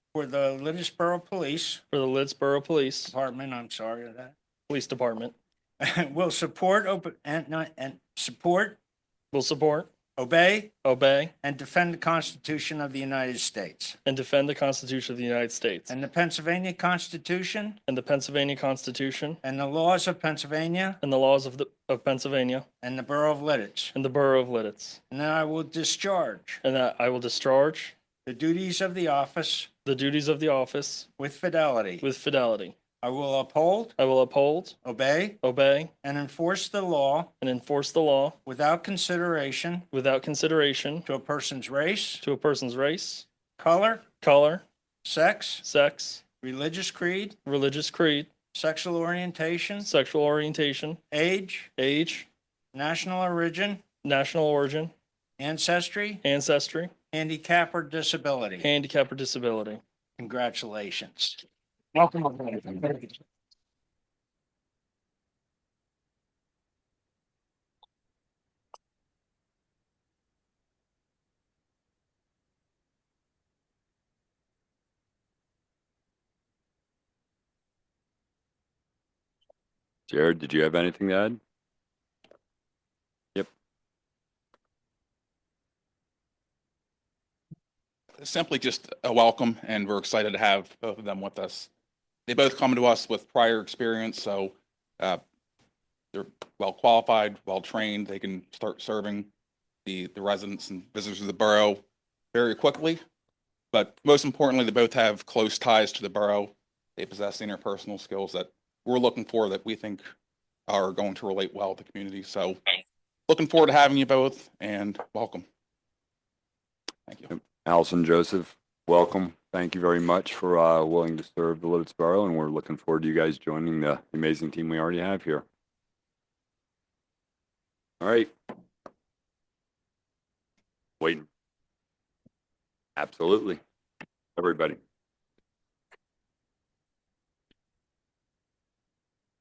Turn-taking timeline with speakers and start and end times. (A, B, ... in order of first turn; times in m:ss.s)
0:00.1-0:01.8 A
0:01.9-0:03.1 B
0:03.1-0:04.4 A
0:04.7-0:05.3 B
0:05.8-0:08.8 A
0:09.3-0:09.9 B
0:10.2-0:10.8 A
0:10.8-0:11.3 B
0:11.4-0:14.0 A
0:14.0-0:15.9 B
0:15.9-0:17.8 A
0:17.9-0:19.4 B
0:19.4-0:21.0 A
0:21.0-0:22.6 B
0:22.8-0:23.9 A
0:23.9-0:25.0 B
0:25.1-0:26.6 A
0:26.6-0:27.9 B
0:28.2-0:29.7 A
0:29.8-0:31.1 B
0:31.2-0:32.0 A
0:32.0-0:32.7 B
0:33.0-0:34.0 A
0:34.0-0:34.8 B
0:34.8-0:35.4 A
0:35.4-0:35.9 B
0:36.0-0:37.3 A
0:37.4-0:38.4 B
0:38.4-0:39.8 A
0:39.9-0:41.0 B
0:41.0-0:42.2 A
0:42.2-0:43.2 B
0:43.6-0:44.1 A
0:44.2-0:44.6 B
0:45.0-0:45.6 A
0:45.6-0:46.2 B
0:46.4-0:47.4 A
0:47.4-0:48.3 B
0:48.5-0:49.9 A
0:49.8-0:51.0 B
0:51.1-0:51.7 A
0:51.8-0:52.3 B
0:52.7-0:53.8 A
0:54.0-0:54.9 B
0:55.4-0:56.2 A
0:56.2-0:56.9 B
0:57.1-0:58.6 A
0:58.6-0:59.8 B
1:00.2-1:01.4 A
1:02.0-1:03.0 A
1:20.1-1:21.4 C
1:28.2-1:31.7 D
1:32.2-1:35.2 D
1:36.1-1:39.3 D
1:39.8-1:43.0 D
1:43.7-1:50.1 D
1:50.7-1:52.6 D
1:53.3-1:55.5 D
1:57.3-2:05.4 C
2:08.0-2:08.3 C
2:11.0-2:11.2 C
2:13.0-2:13.6 C
2:14.4-2:14.8 C